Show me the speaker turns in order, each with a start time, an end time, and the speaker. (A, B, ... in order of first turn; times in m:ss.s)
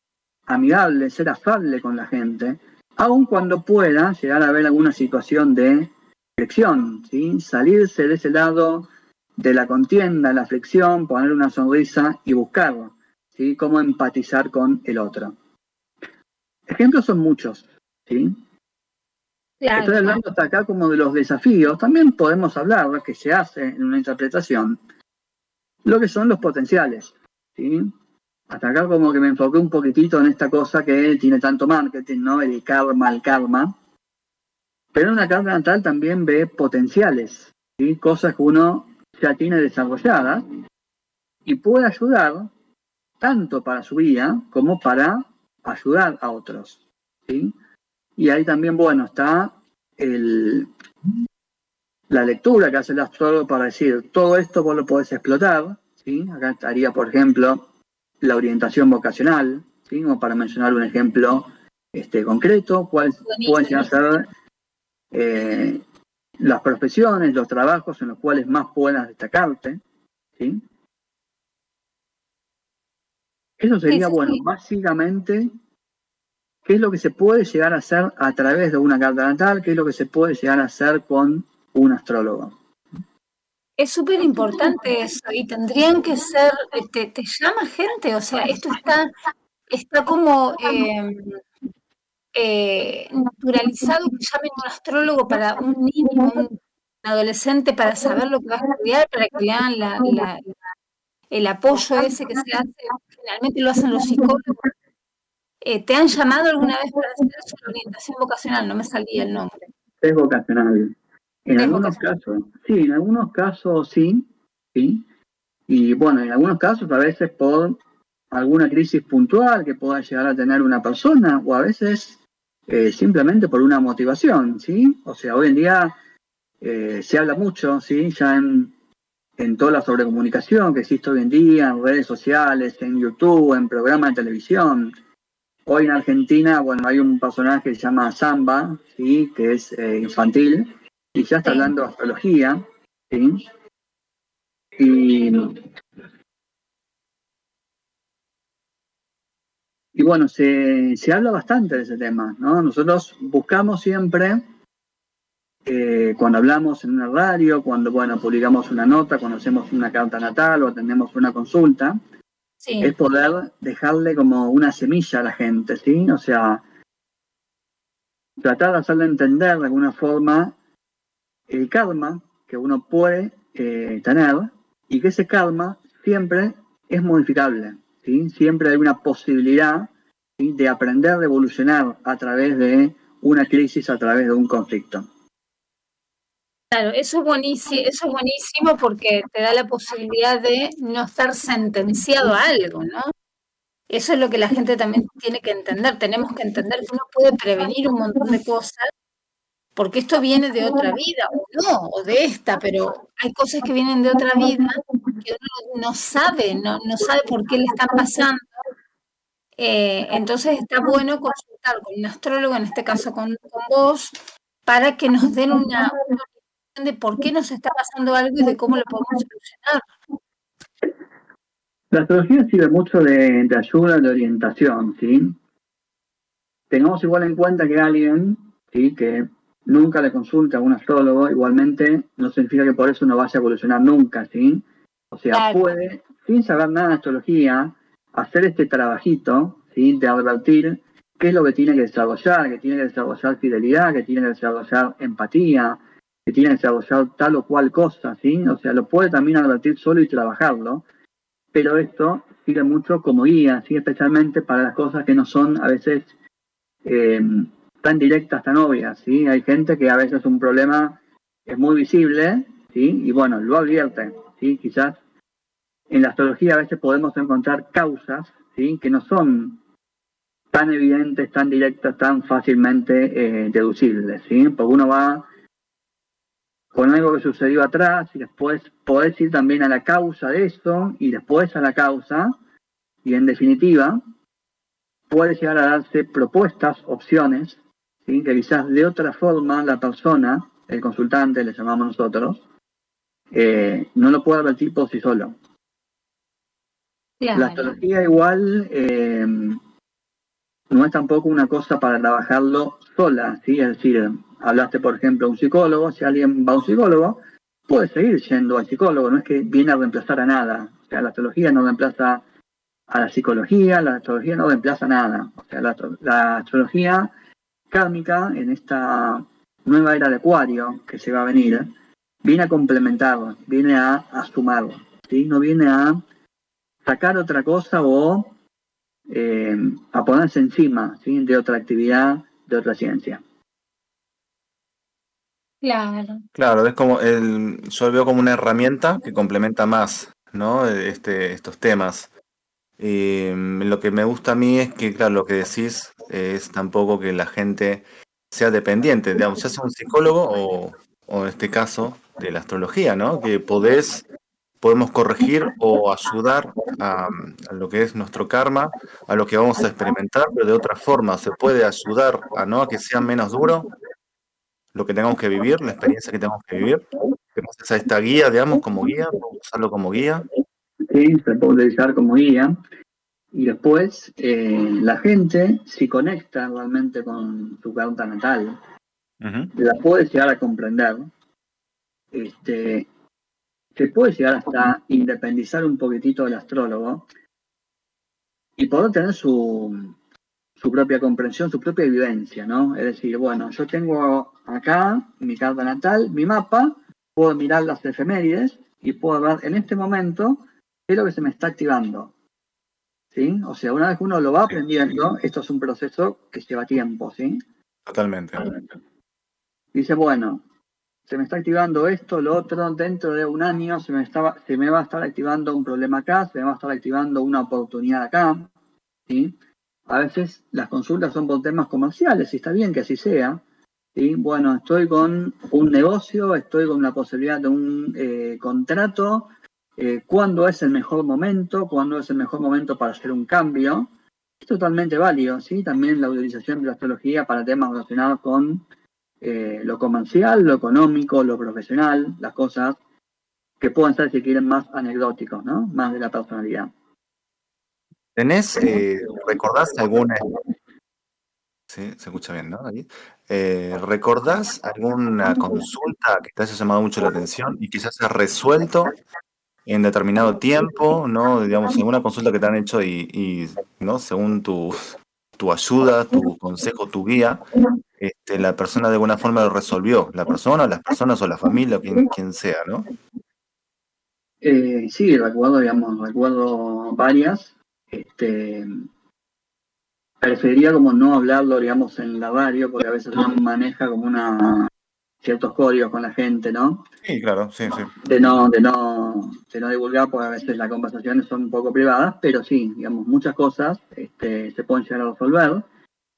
0:00.5-0:15.4 A
0:16.7-0:18.4 A
0:19.6-0:20.2 B
0:19.8-0:24.8 A
0:25.8-0:27.9 A
0:28.5-0:33.7 A
0:34.9-0:40.4 A
0:41.5-0:42.5 A
0:43.2-0:47.6 A
0:48.2-0:50.7 A
0:52.1-0:57.6 A
0:58.2-1:04.3 A
1:03.3-1:03.9 B
1:05.1-1:05.8 A
1:06.4-1:09.8 A
1:10.4-1:10.6 A
1:13.6-1:15.5 A
1:13.9-1:14.4 B
1:16.7-1:22.6 A
1:23.8-1:29.1 B
1:29.7-1:31.4 B
1:32.4-1:40.5 B
1:41.3-1:44.7 B
1:45.6-1:49.6 B
1:50.0-1:51.0 A
1:51.5-1:55.0 A
1:51.6-1:52.0 B
1:55.7-1:57.8 A
1:58.3-2:06.0 A
2:06.6-2:08.7 A
2:09.4-2:14.9 A
2:15.7-2:23.4 A
2:21.4-2:21.7 B
2:24.8-2:25.6 A
2:30.0-2:34.4 A
2:35.7-2:42.0 A
2:42.6-2:42.9 B
2:42.8-2:46.6 A
2:48.4-2:50.5 A
2:51.5-3:05.1 A
3:06.7-3:13.1 B
3:13.9-3:18.9 B
3:19.8-3:28.5 B
3:29.6-3:34.2 B
3:34.7-3:39.8 B
3:41.9-3:45.4 A
3:46.7-4:10.8 A
3:55.3-3:55.6 B
4:11.5-4:16.1 A
4:16.8-4:25.0 A
4:25.9-4:29.6 A
4:30.5-4:35.3 A
4:36.7-4:42.3 A
4:43.0-4:44.0 A
4:45.1-4:52.4 A
4:53.3-4:55.4 A
4:57.2-4:57.8 B
4:57.4-4:59.6 A
5:00.7-5:12.2 A
5:12.9-5:17.1 A
5:17.7-5:21.7 A
5:22.2-5:26.0 A
5:26.8-5:28.3 A
5:29.1-5:33.2 A
5:35.6-5:36.2 B
5:36.4-5:42.1 C
5:42.8-5:54.0 C
5:54.6-6:03.7 C
6:04.7-6:10.3 C
6:10.9-6:12.6 A
6:13.3-6:18.6 A
6:19.2-6:19.5 C
6:19.6-6:21.1 A
6:22.1-6:22.9 A
6:23.8-6:27.1 A
6:28.6-6:29.9 A
6:30.6-6:42.1 A
6:43.1-6:47.4 A
6:47.9-6:48.5 C
6:49.7-6:50.4 A
6:51.1-6:58.5 A
6:59.1-6:59.3 A
6:59.9-7:03.4 A
7:04.0-7:13.9 A
7:14.4-7:18.6 A
7:19.2-7:22.8 A
7:23.6-7:26.7 A
7:28.2-7:30.3 C
7:31.7-7:39.0 C
7:39.7-7:47.4 C
7:48.0-7:52.9 C
7:54.4-7:58.8 A
8:00.2-8:04.7 A
8:05.2-8:06.8 A
8:07.0-8:08.0 C
8:08.0-8:15.6 A